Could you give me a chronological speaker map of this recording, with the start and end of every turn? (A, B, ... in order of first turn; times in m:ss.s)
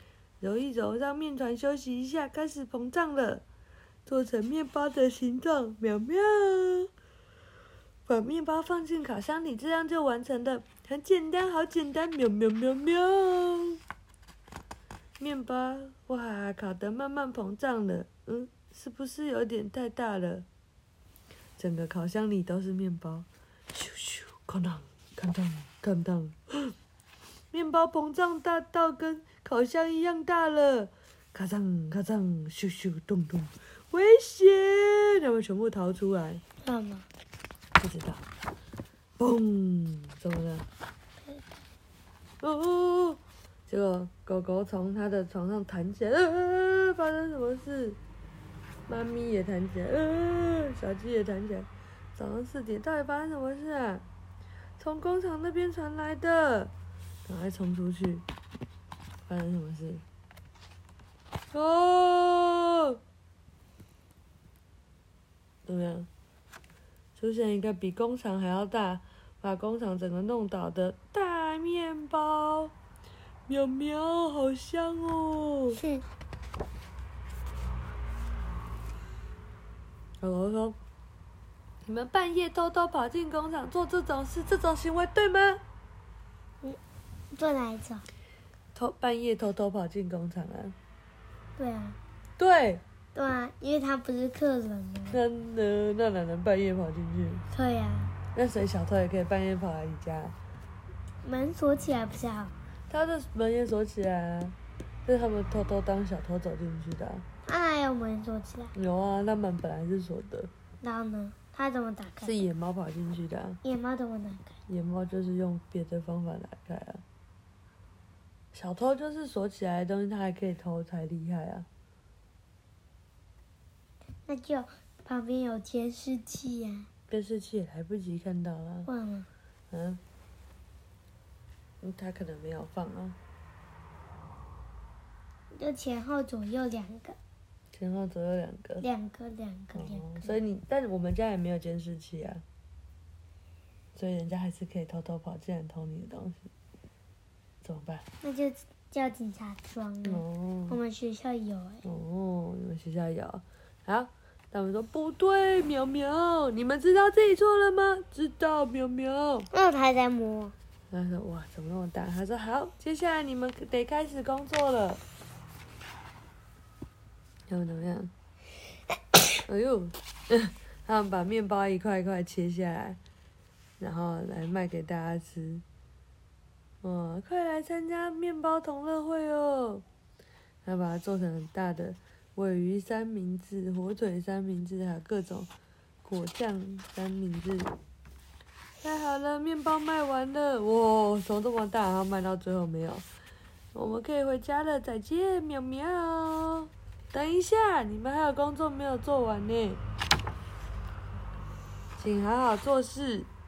0:00.4-0:03.4 A
0:04.1-0:06.9 A
0:08.1-0:13.8 A
0:15.2-0:20.5 A
0:21.6-0:26.7 A
0:27.5-0:36.4 A
0:36.6-0:37.1 B
0:37.8-0:38.2 A
0:39.2-0:40.7 A
0:42.4-0:48.0 A
0:48.9-0:54.0 A
0:54.8-0:56.7 A
0:57.3-0:58.2 A
0:59.3-1:00.0 A
1:01.5-1:03.0 A
1:05.7-1:06.1 A
1:07.2-1:12.7 A
1:13.5-1:15.8 A
1:15.8-1:16.0 B
1:20.2-1:20.8 A
1:21.9-1:25.6 A
1:27.3-1:28.0 B
1:28.7-1:30.8 A
1:31.6-1:32.0 B
1:32.4-1:32.8 A
1:33.2-1:35.2 B
1:35.1-1:37.4 A
1:37.5-1:38.1 B
1:38.3-1:40.4 A
1:41.2-1:42.5 B
1:42.9-1:47.2 A
1:47.4-1:48.7 B
1:48.8-1:50.5 A
1:50.8-1:52.4 B
1:52.2-1:53.6 A
1:53.6-1:54.6 B
1:54.7-1:57.0 A
1:58.5-2:01.7 A
2:04.3-2:06.9 B
2:07.1-2:08.9 A
2:08.9-2:09.3 B
2:09.7-2:10.0 A
2:11.8-2:13.2 A
2:15.5-2:17.2 B
2:17.7-2:18.8 A
2:18.8-2:20.4 B
2:19.7-2:22.4 A
2:24.0-2:26.5 A
2:27.6-2:28.0 A
2:28.2-2:31.8 B
2:30.0-2:30.8 A
2:31.8-2:39.5 A
2:39.5-2:40.5 B
2:40.9-2:45.0 A
2:47.5-2:48.1 A
2:49.5-2:53.0 A
2:53.8-2:55.6 A
2:56.8-2:59.8 A
3:00.6-3:05.5 A
3:06.0-3:07.7 A
3:08.8-3:13.1 A
3:13.7-3:19.8 A
3:22.0-3:23.3 A